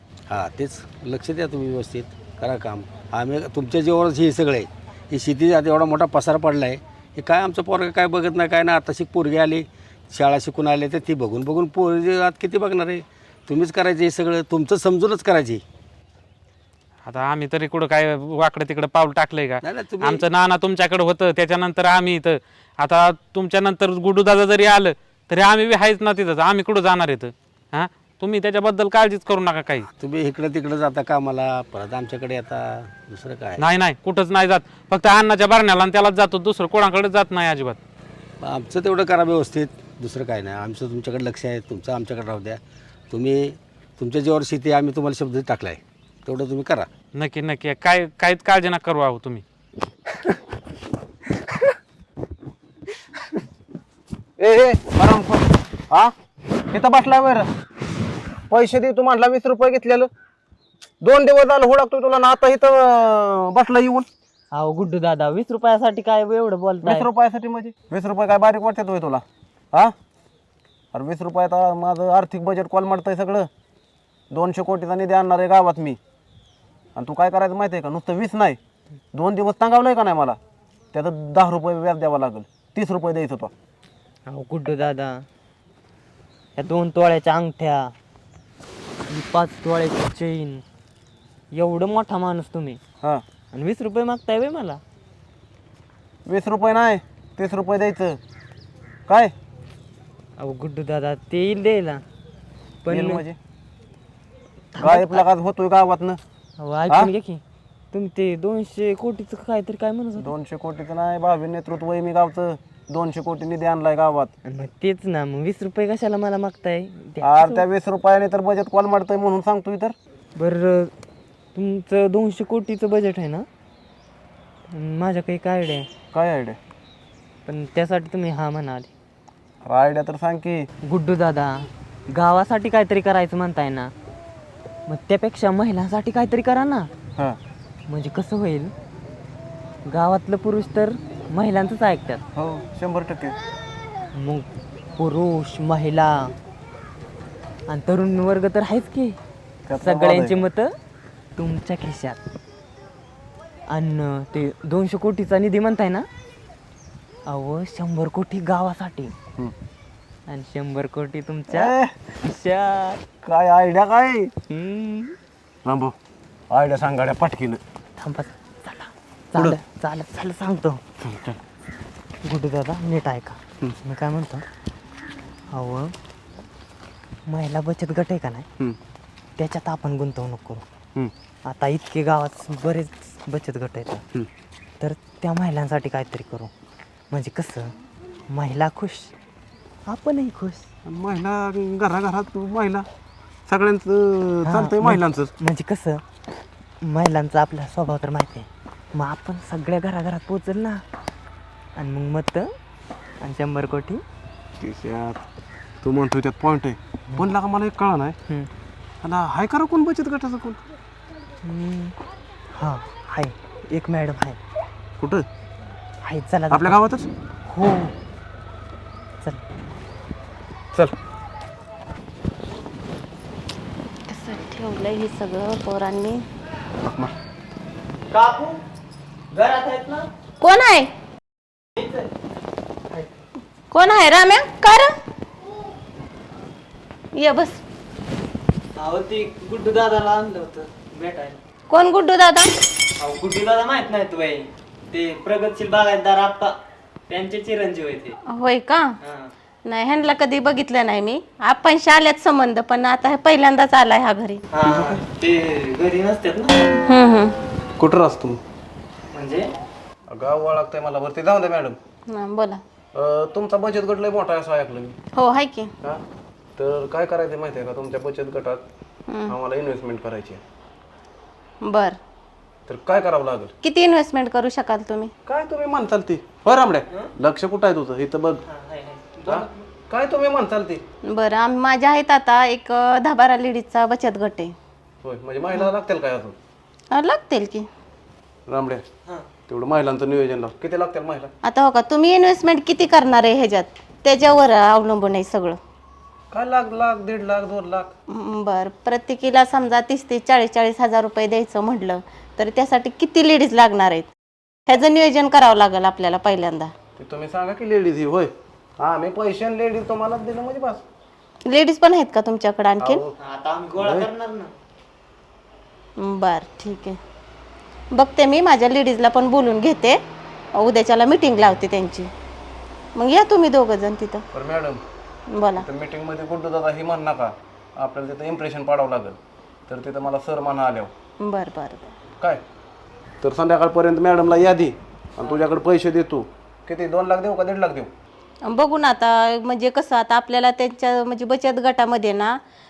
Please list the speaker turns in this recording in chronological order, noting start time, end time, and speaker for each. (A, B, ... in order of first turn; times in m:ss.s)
0:00.3-0:15.6 A
0:17.0-0:29.9 B
0:19.6-0:20.2 A
0:30.0-0:33.6 A
0:33.6-0:37.8 B
0:38.4-0:46.9 A
0:47.1-0:49.4 B
0:54.4-0:56.1 C
0:56.7-0:57.5 C
0:58.5-1:00.1 C
1:01.0-1:04.1 C
1:04.5-1:07.1 D
1:06.8-1:09.9 C
1:10.9-1:13.5 C
1:14.3-1:16.0 C
1:17.0-1:18.6 C
1:19.1-1:20.4 C
1:20.9-1:23.5 C
1:24.3-1:25.2 D
1:26.6-1:27.9 D
1:29.1-1:30.6 D
1:31.5-1:32.8 D
1:33.5-1:34.8 D
1:36.3-1:38.2 C
1:40.4-1:42.0 D
1:42.8-1:43.2 D
1:42.9-1:43.4 C
1:44.8-1:45.2 D
1:44.8-1:46.2 C
1:46.6-1:47.4 D
1:47.9-1:50.3 D
1:50.2-1:54.3 C
1:54.4-1:57.6 D
1:57.2-1:59.9 C
2:00.4-2:00.9 D
2:01.6-2:03.5 D
2:04.7-2:05.9 D
2:06.1-2:06.6 C
2:07.5-2:08.9 D
2:09.6-2:10.6 C
2:10.9-2:13.9 D
2:14.9-2:16.9 D
2:17.9-2:18.7 D
2:19.9-2:22.2 D
2:22.4-2:23.4 C
2:24.1-2:24.5 D
2:25.0-2:26.3 D
2:27.7-2:29.2 D
2:29.7-2:30.4 C
2:29.8-2:30.7 D
2:31.4-2:32.2 D
2:33.7-2:36.1 D
2:37.3-2:39.1 D
2:40.3-2:43.0 D
2:41.5-2:41.9 C
2:43.2-2:44.3 C
2:44.5-2:45.2 D
2:45.7-2:45.9 C
2:46.5-2:47.6 C
2:48.0-2:50.8 D
2:51.0-2:51.4 C
2:52.2-2:54.4 D
2:55.5-2:55.9 D
2:57.3-2:58.5 D
2:59.4-3:00.6 D
3:01.5-3:04.0 D
3:04.8-3:06.5 D
3:07.1-3:07.7 D
3:08.3-3:09.1 D
3:09.9-3:10.7 D
3:10.9-3:12.9 C
3:13.5-3:15.3 C
3:14.5-3:16.0 D
3:16.8-3:20.8 D
3:21.8-3:22.5 D
3:23.2-3:24.0 D
3:24.6-3:25.2 C
3:25.8-3:28.2 C
3:29.0-3:30.6 C
3:31.4-3:32.0 D
3:32.6-3:34.4 D
3:35.0-3:35.2 C
3:36.0-3:36.8 D
3:36.5-3:37.1 C
3:37.5-3:37.9 D
3:44.1-3:46.2 E
3:46.8-3:47.1 C
3:48.1-3:48.6 D
3:49.3-3:50.1 D
3:50.4-3:50.9 E
3:53.7-3:55.0 E
3:57.1-3:57.6 E
3:58.8-4:01.4 D
4:01.7-4:02.5 E
4:03.0-4:06.6 D
4:07.1-4:08.2 D
4:08.3-4:09.0 E
4:09.0-4:09.3 D
4:09.7-4:14.4 E
4:14.5-4:16.7 D
4:14.6-4:15.0 C
4:16.9-4:17.4 E
4:17.8-4:18.4 C
4:19.1-4:19.5 D
4:20.1-4:21.8 C
4:22.1-4:22.6 E
4:23.0-4:25.0 C
4:25.1-4:25.7 E
4:26.6-4:28.6 C
4:29.1-4:29.4 E
4:29.3-4:30.4 C
4:31.6-4:32.0 E
4:32.7-4:33.5 C
4:33.6-4:35.1 E
4:35.2-4:38.4 C
4:38.4-4:39.5 D
4:39.2-4:40.8 C
4:41.1-4:44.6 E
4:45.0-4:46.4 C
4:46.9-4:47.7 E
4:48.5-4:48.8 C
4:49.5-4:51.3 C
4:51.4-4:55.6 E
4:56.3-4:57.9 C
4:58.1-5:04.1 E
5:04.7-5:06.7 E
5:07.0-5:10.8 C
5:11.5-5:13.0 E
5:12.8-5:13.1 C
5:13.2-5:14.5 D
5:13.8-5:14.1 C
5:16.0-5:17.0 E
5:17.9-5:20.0 E
5:20.5-5:22.1 E
5:23.0-5:24.2 E
5:24.3-5:24.8 C
5:25.3-5:25.7 E
5:25.6-5:30.9 C
5:31.2-5:31.9 E
5:33.2-5:37.9 C
5:38.4-5:42.4 E